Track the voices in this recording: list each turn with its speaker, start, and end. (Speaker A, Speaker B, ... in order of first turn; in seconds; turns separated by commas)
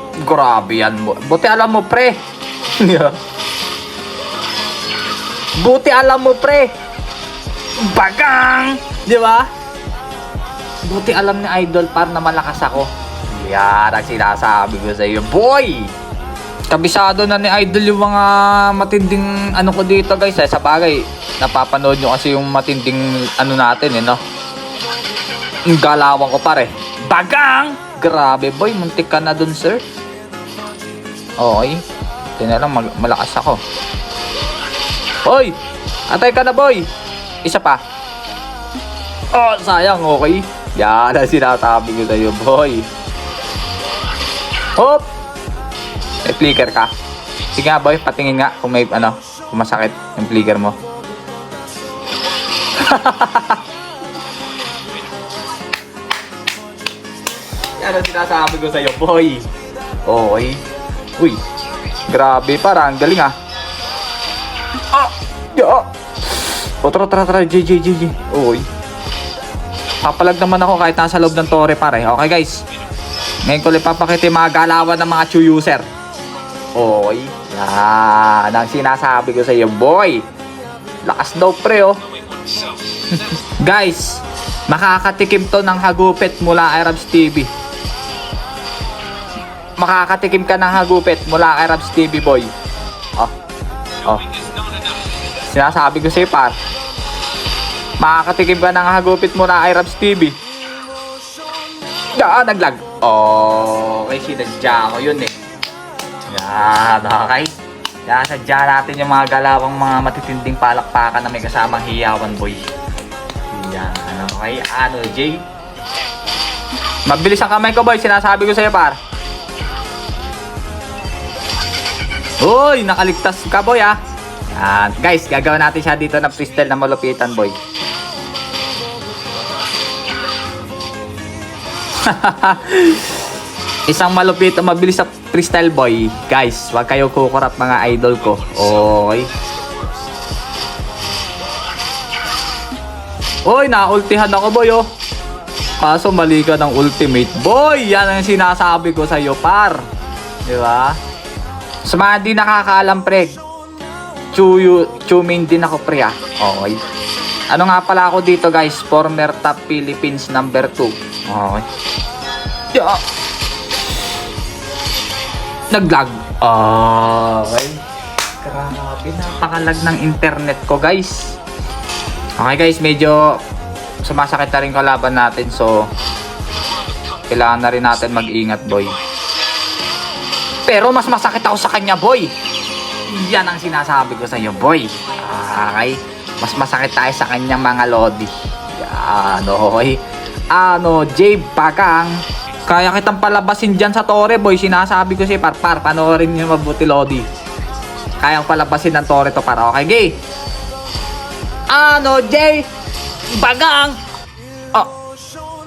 Speaker A: 0.2-2.2, Speaker A: 2.8-3.2, Speaker A: 5.6-6.7, Speaker A: 7.8-9.5, Speaker A: 10.8-15.9, Speaker A: 16.7-24.2, Speaker A: 25.7-29.8, Speaker A: 31.4-31.8, Speaker A: 32.4-33.6, Speaker A: 35.2-35.5, Speaker A: 36.1-36.9, Speaker A: 37.4-37.8, Speaker A: 39.3-42.9, Speaker A: 44.8-45.1, Speaker A: 46.2-46.9, Speaker A: 47.5-50.8, Speaker A: 52.8-53.6, Speaker A: 57.8-59.5, Speaker A: 60.1-60.6, Speaker A: 62.1-63.4, Speaker A: 64.9-68.7, Speaker A: 70.0-72.6, Speaker A: 73.5-75.8, Speaker A: 76.8-80.2, Speaker A: 81.0-82.0, Speaker A: 83.1-87.5, Speaker A: 89.8-92.5, Speaker A: 94.0-94.4, Speaker A: 95.5-96.5, Speaker A: 98.0-100.4, Speaker A: 102.2-105.3, Speaker A: 106.3-107.5, Speaker A: 108.1-112.7, Speaker A: 113.5-115.4, Speaker A: 117.1-119.0, Speaker A: 122.4-124.0, Speaker A: 124.5-127.6, Speaker A: 132.0-133.3, Speaker A: 133.9-139.3, Speaker A: 143.5-144.9, Speaker A: 145.8-149.8, Speaker A: 150.5-151.0, Speaker A: 151.8-153.3, Speaker A: 154.3-156.8, Speaker A: 157.5-161.7, Speaker A: 162.7-163.0, Speaker A: 165.7-167.8, Speaker A: 168.4-171.4, Speaker A: 172.4-173.4, Speaker A: 174.0-175.9, Speaker A: 177.3-179.0, Speaker A: 180.7-182.3, Speaker A: 183.1-190.0, Speaker A: 190.5-197.3, Speaker A: 198.2-200.2, Speaker A: 201.7-202.7, Speaker A: 203.3-204.0